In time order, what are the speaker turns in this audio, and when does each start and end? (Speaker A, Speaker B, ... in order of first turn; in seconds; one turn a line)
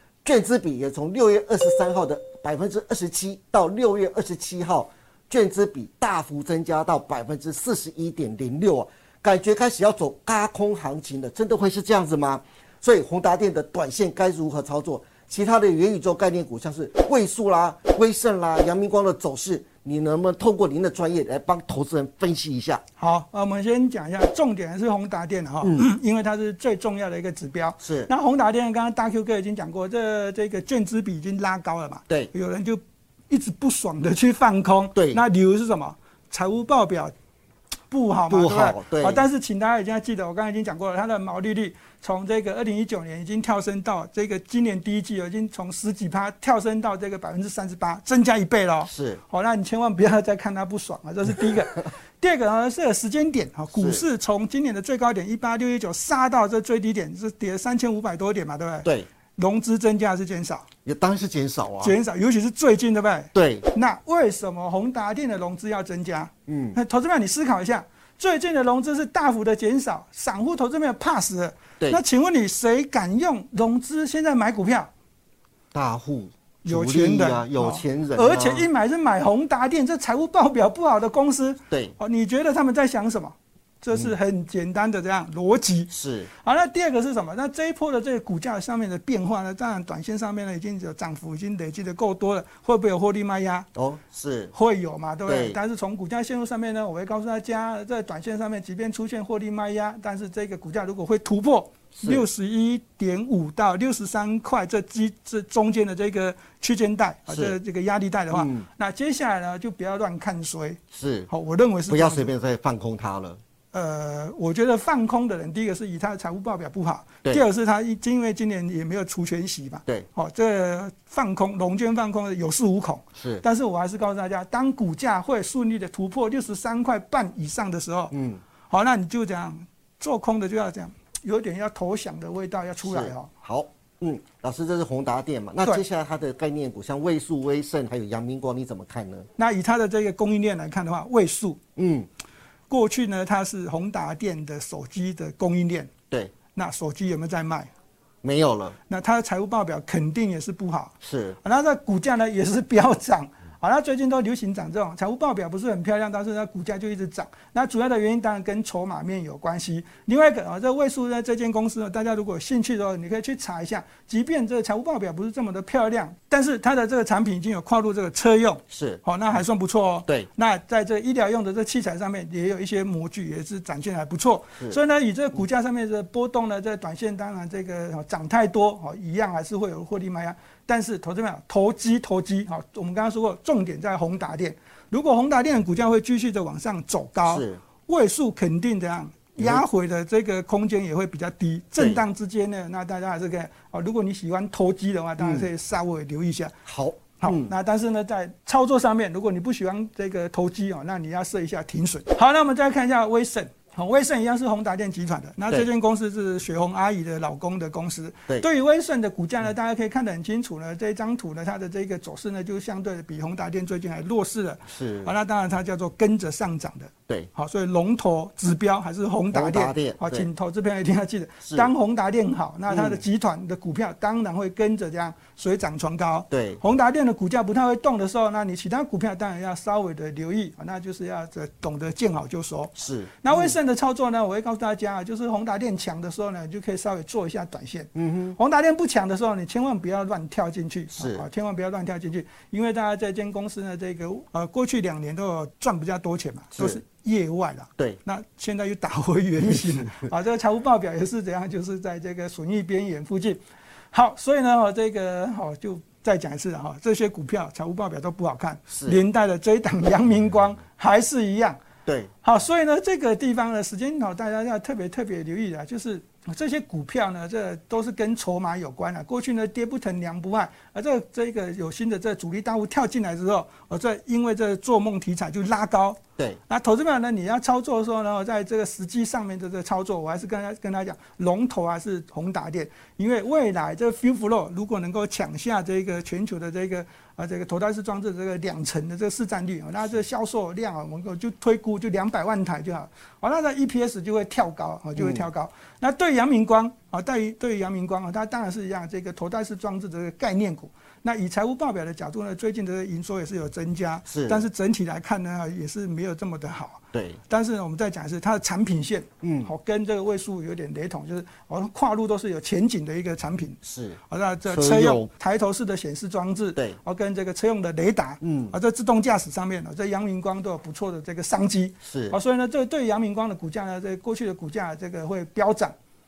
Speaker A: 0.2-22.8
Speaker B: 23.0-37.1
Speaker A: 27.8-28.1
Speaker A: 35.0-35.2
Speaker B: 37.9-60.7
Speaker A: 38.3-39.2
Speaker A: 48.9-49.2
Speaker A: 53.8-54.0
Speaker A: 60.9-62.0
Speaker B: 61.8-74.9
Speaker A: 63.3-63.7
Speaker A: 66.5-66.8
Speaker A: 75.7-78.7
Speaker B: 76.6-85.9
Speaker A: 85.9-86.3
Speaker B: 86.4-93.7
Speaker A: 93.8-94.5
Speaker B: 94.5-112.3
Speaker A: 95.3-95.6
Speaker A: 101.9-102.3
Speaker A: 107.3-107.6
Speaker A: 108.3-108.7
Speaker A: 110.9-111.3
Speaker A: 111.9-113.4
Speaker B: 113.7-128.1
Speaker A: 123.2-123.4
Speaker A: 128.1-128.4
Speaker B: 128.7-133.3
Speaker A: 132.8-139.3
Speaker B: 139.4-141.6
Speaker A: 141.8-142.1
Speaker B: 142.7-145.9
Speaker B: 146.5-147.7
Speaker A: 148.2-148.8
Speaker B: 148.9-196.6
Speaker A: 151.0-151.4
Speaker A: 168.7-169.0
Speaker A: 187.3-187.6
Speaker A: 191.8-192.0
Speaker A: 195.2-195.5
Speaker A: 196.7-197.5
Speaker B: 197.2-253.4
Speaker A: 214.7-215.1
Speaker A: 219.3-220.3
Speaker A: 221.4-221.7
Speaker A: 222.7-223.0
Speaker A: 226.3-226.6
Speaker A: 232.8-233.6
Speaker A: 237.9-238.4
Speaker A: 240.9-241.2
Speaker A: 246.6-246.8
Speaker A: 249.5-250.0
Speaker B: 253.9-261.6
Speaker A: 258.7-259.0
Speaker A: 261.9-262.1
Speaker B: 262.2-325.7
Speaker A: 295.0-295.3
Speaker A: 304.1-304.5
Speaker A: 306.9-307.2
Speaker A: 309.2-309.5
Speaker A: 313.6-315.1
Speaker A: 318.2-318.5
Speaker A: 321.8-322.2